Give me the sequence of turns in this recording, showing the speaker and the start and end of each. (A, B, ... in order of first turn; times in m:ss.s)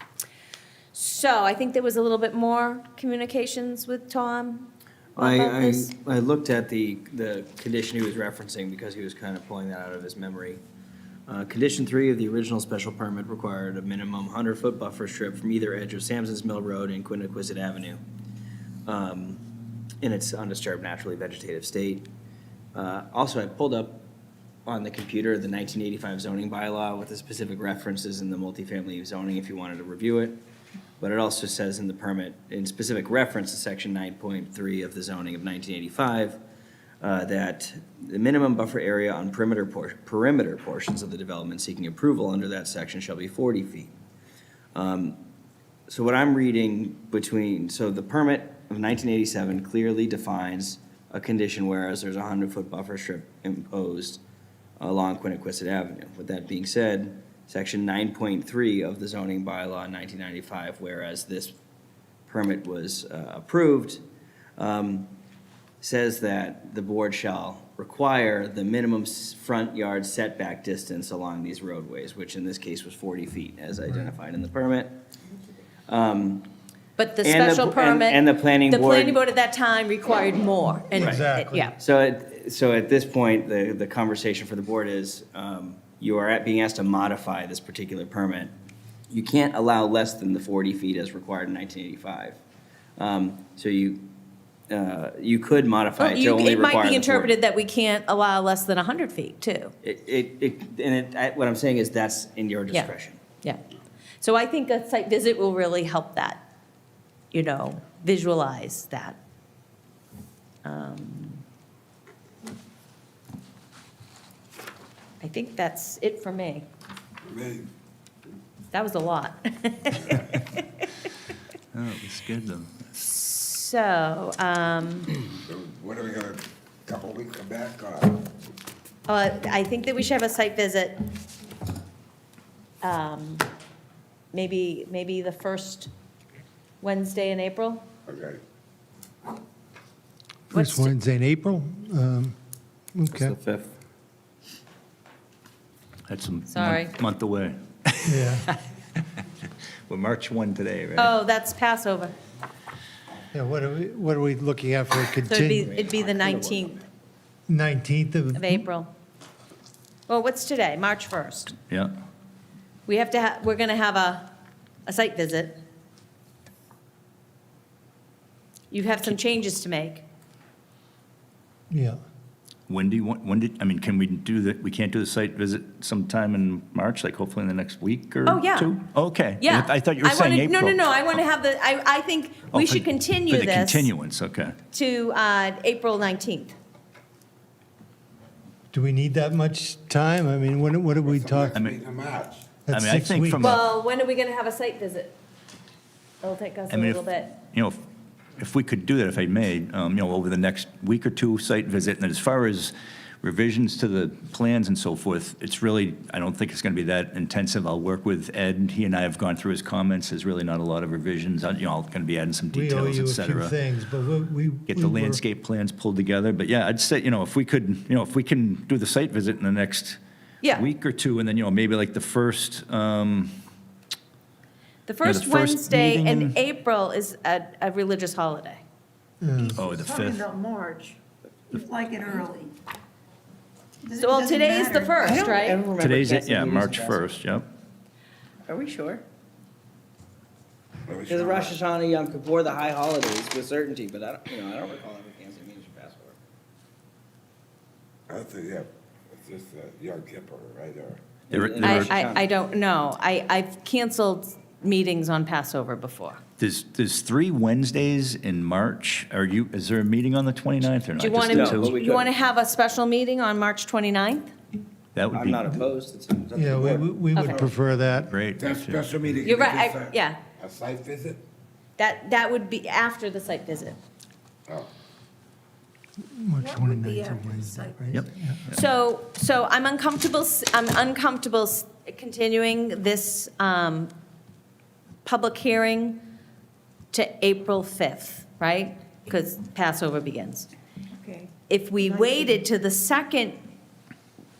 0:00.9-0:05.9 A
0:05.2-0:10.6 B
0:11.3-0:18.0 B
0:18.8-0:19.4 B
0:20.0-0:22.1 B
0:22.7-0:24.0 B
0:24.6-0:30.4 B
0:31.0-0:36.4 B
0:37.0-0:43.9 B
0:44.7-0:45.2 B
0:45.9-0:54.2 B
0:54.8-1:01.6 B
1:02.2-1:04.0 B
1:04.6-1:05.1 B
1:05.8-1:14.9 B
1:15.9-1:16.4 B
1:17.0-1:21.7 A
1:17.2-1:19.2 B
1:20.9-1:21.7 C
1:20.9-1:21.2 B
1:21.8-1:28.5 B
1:29.1-1:32.4 B
1:33.0-1:34.0 B
1:34.7-1:37.3 B
1:36.0-1:39.7 A
1:39.8-1:43.2 B
1:44.2-1:46.4 A
1:47.3-1:49.2 A
1:50.6-1:51.4 A
1:55.2-1:56.7 A
1:57.2-1:57.7 D
1:58.7-2:00.8 A
2:01.7-2:03.0 E
2:03.0-2:05.1 A
2:05.3-2:08.3 D
2:09.1-2:11.0 A
2:12.8-2:13.5 A
2:14.3-2:15.9 A
2:16.8-2:17.8 A
2:18.1-2:18.4 D
2:20.5-2:22.3 C
2:20.5-2:20.9 A
2:22.9-2:23.3 C
2:23.1-2:23.7 B
2:26.1-2:31.1 E
2:26.5-2:26.9 A
2:28.0-2:28.5 C
2:31.0-2:32.1 A
2:33.3-2:35.8 C
2:35.3-2:36.8 A
2:35.8-2:36.8 B
2:37.5-2:38.6 C
2:38.3-2:38.9 A
2:40.1-2:41.5 A
2:42.9-2:44.3 A
2:44.8-2:45.6 A
2:48.7-2:50.0 A
2:51.7-2:52.0 C
2:52.7-3:01.2 E
2:58.2-2:58.8 A
2:59.4-3:03.9 A
3:02.5-3:04.6 E
3:04.7-3:06.5 A
3:08.7-3:11.6 C
3:11.0-3:12.6 D
3:12.6-3:13.5 C
3:12.7-3:13.6 E
3:13.4-3:15.2 A
3:16.2-3:17.4 A
3:16.7-3:17.0 E
3:17.5-3:17.8 E
3:18.4-3:33.5 E
3:32.5-3:35.2 C
3:34.7-3:43.3 E
3:44.8-3:48.6 A
3:45.0-3:46.4 E
3:49.2-3:49.7 C
3:49.4-3:51.0 F
3:49.6-3:50.3 E
3:51.5-3:52.5 F
3:53.8-3:55.2 F
3:53.9-3:55.6 A
3:55.0-3:57.0 B
3:55.8-3:57.5 E
3:58.4-3:59.0 B
4:00.8-4:01.6 D
4:01.1-4:06.2 B
4:08.1-4:11.0 D
4:11.3-4:12.3 B
4:11.3-4:12.0 E
4:11.6-4:16.2 A
4:16.4-4:21.7 E
4:21.0-4:24.3 A
4:21.3-4:22.1 B
4:24.9-4:25.4 E
4:25.1-4:27.5 B
4:26.3-4:28.1 C
4:27.1-4:27.5 A
4:28.1-4:28.9 E
4:28.4-4:31.2 D
4:29.2-4:30.2 A
4:31.8-4:33.8 A
4:36.1-4:38.4 C
4:36.4-4:38.0 F
4:37.9-4:38.6 E
4:38.5-4:43.9 A
4:45.0-4:46.0 A
4:46.9-4:50.5 A
4:51.0-4:52.3 F
4:51.5-4:53.4 A